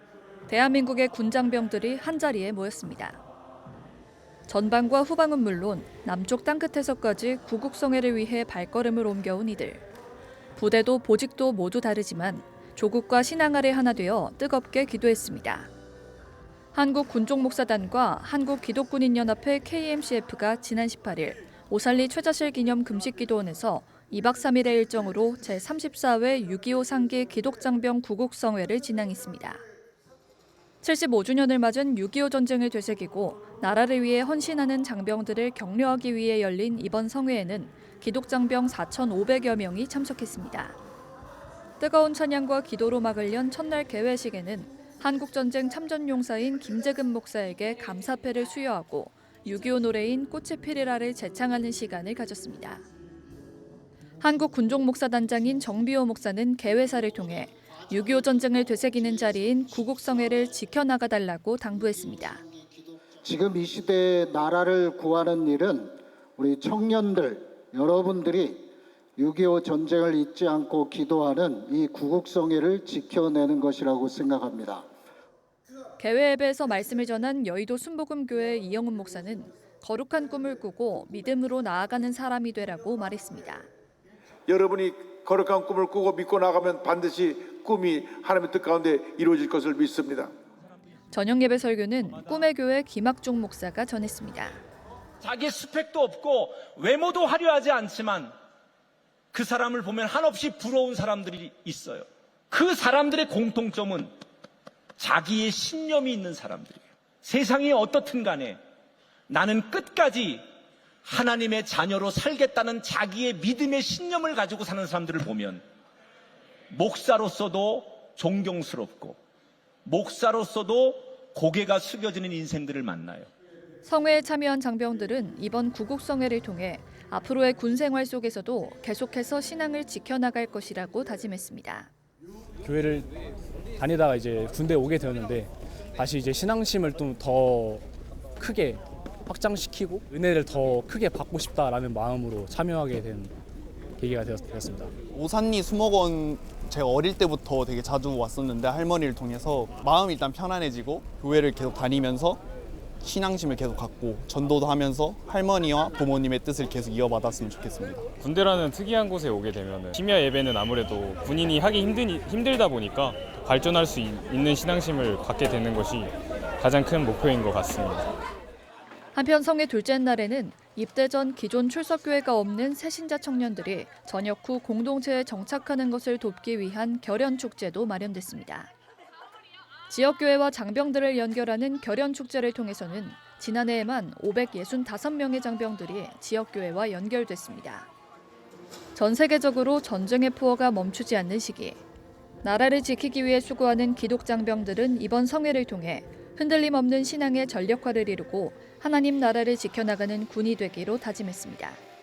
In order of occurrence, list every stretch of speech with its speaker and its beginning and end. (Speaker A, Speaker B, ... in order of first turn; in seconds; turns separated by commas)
Speaker A: 0.5-3.2, Speaker A: 4.5-9.8, Speaker A: 10.6-15.7, Speaker A: 16.7-29.6, Speaker A: 30.8-40.8, Speaker A: 41.8-52.8, Speaker A: 54.2-62.4, Speaker B: 63.2-68.6, Speaker B: 69.2-74.8, Speaker A: 76.0-83.7, Speaker C: 84.5-90.3, Speaker A: 91.1-94.6, Speaker D: 95.2-98.3, Speaker D: 99.3-104.1, Speaker D: 105.0-108.6, Speaker D: 109.3-110.4, Speaker D: 111.0-115.6, Speaker D: 116.7-119.2, Speaker D: 119.8-123.3, Speaker A: 123.8-131.9, Speaker E: 132.6-133.1, Speaker E: 133.8-137.8, Speaker E: 138.4-143.3, Speaker E: 144.0-144.9, Speaker F: 145.1-152.4, Speaker F: 153.0-158.0, Speaker C: 155.2-158.0, Speaker G: 158.2-168.1, Speaker A: 169.1-178.7, Speaker A: 179.9-187.9, Speaker A: 188.9-191.8, Speaker A: 192.4-201.8